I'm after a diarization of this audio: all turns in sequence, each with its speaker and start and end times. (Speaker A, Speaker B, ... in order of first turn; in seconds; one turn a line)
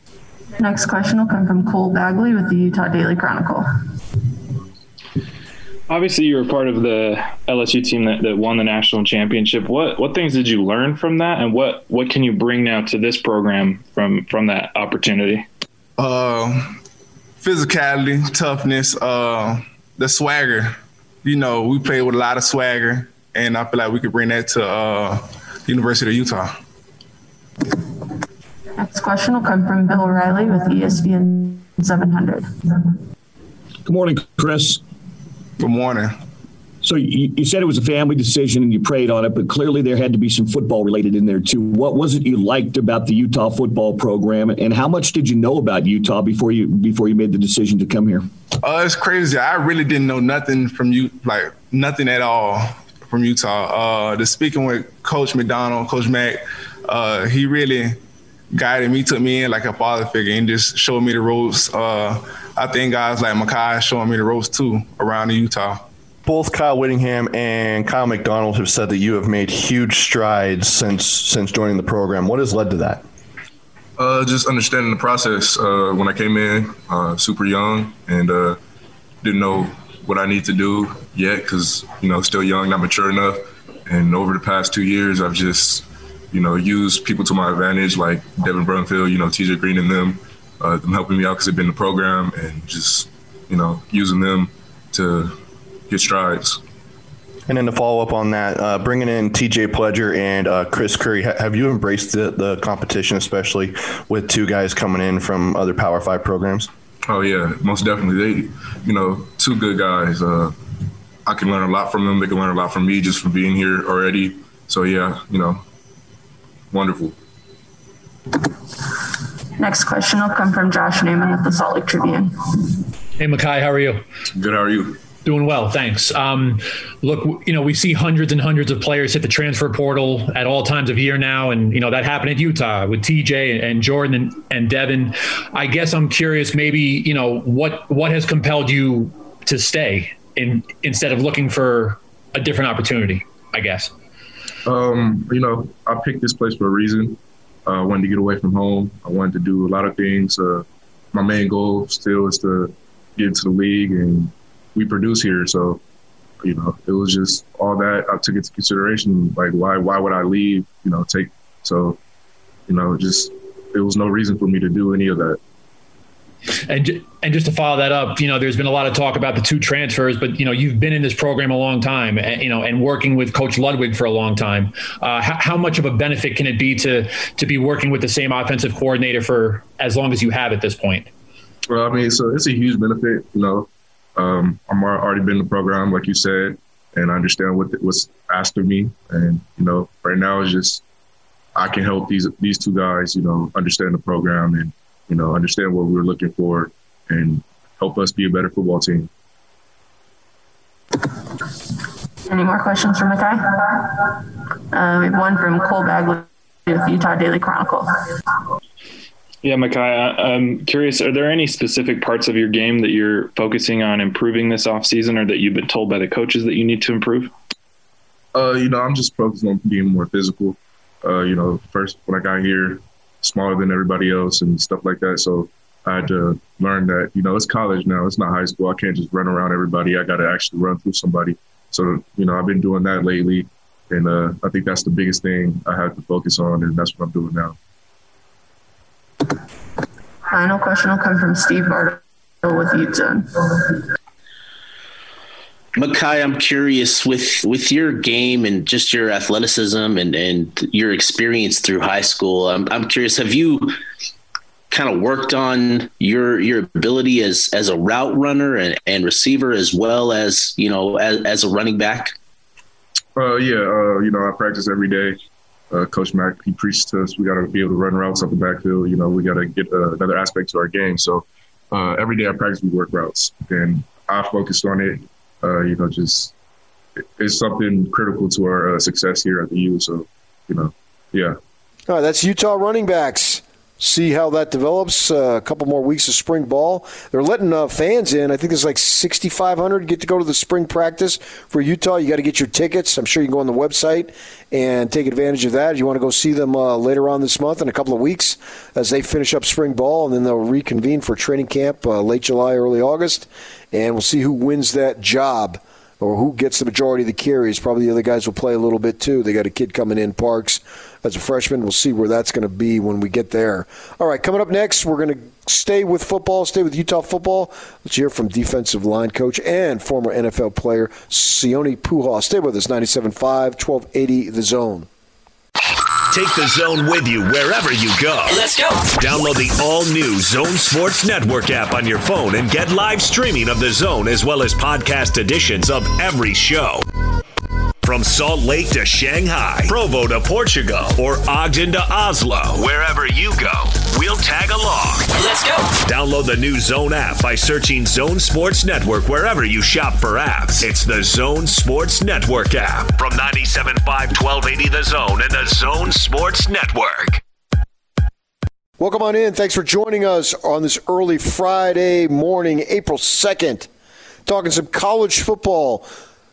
Speaker A: 0.6-3.7
Speaker B: 5.9-15.5
Speaker C: 16.0-16.8
Speaker C: 17.4-26.6
Speaker A: 28.8-33.0
Speaker D: 33.9-34.8
Speaker C: 35.6-36.2
Speaker D: 36.8-48.3
Speaker C: 48.6-58.0
Speaker C: 58.5-65.9
Speaker E: 66.2-73.0
Speaker F: 74.0-78.6
Speaker F: 79.2-95.3
Speaker F: 95.9-96.6
Speaker E: 97.5-106.7
Speaker F: 107.0-110.5
Speaker F: 111.3-115.6
Speaker F: 116.7-117.2
Speaker A: 118.5-122.7
Speaker G: 123.2-124.0
Speaker F: 124.3-125.0
Speaker G: 125.2-143.9
Speaker F: 144.7-155.8
Speaker F: 156.4-162.0
Speaker F: 162.7-165.4
Speaker G: 166.7-181.1
Speaker F: 181.7-190.8
Speaker F: 191.6-199.1
Speaker A: 202.3-208.0
Speaker B: 209.4-217.3
Speaker F: 218.3-237.6
Speaker A: 240.3-243.8
Speaker H: 245.8-253.8
Speaker H: 254.7-262.1
Speaker F: 263.2-265.2
Speaker F: 265.7-276.3
Speaker F: 277.2-281.4
Speaker I: 281.9-324.9
Speaker J: 326.1-336.8
Speaker J: 337.8-345.1
Speaker J: 345.7-357.2
Speaker I: 358.8-363.7
Speaker I: 364.3-365.9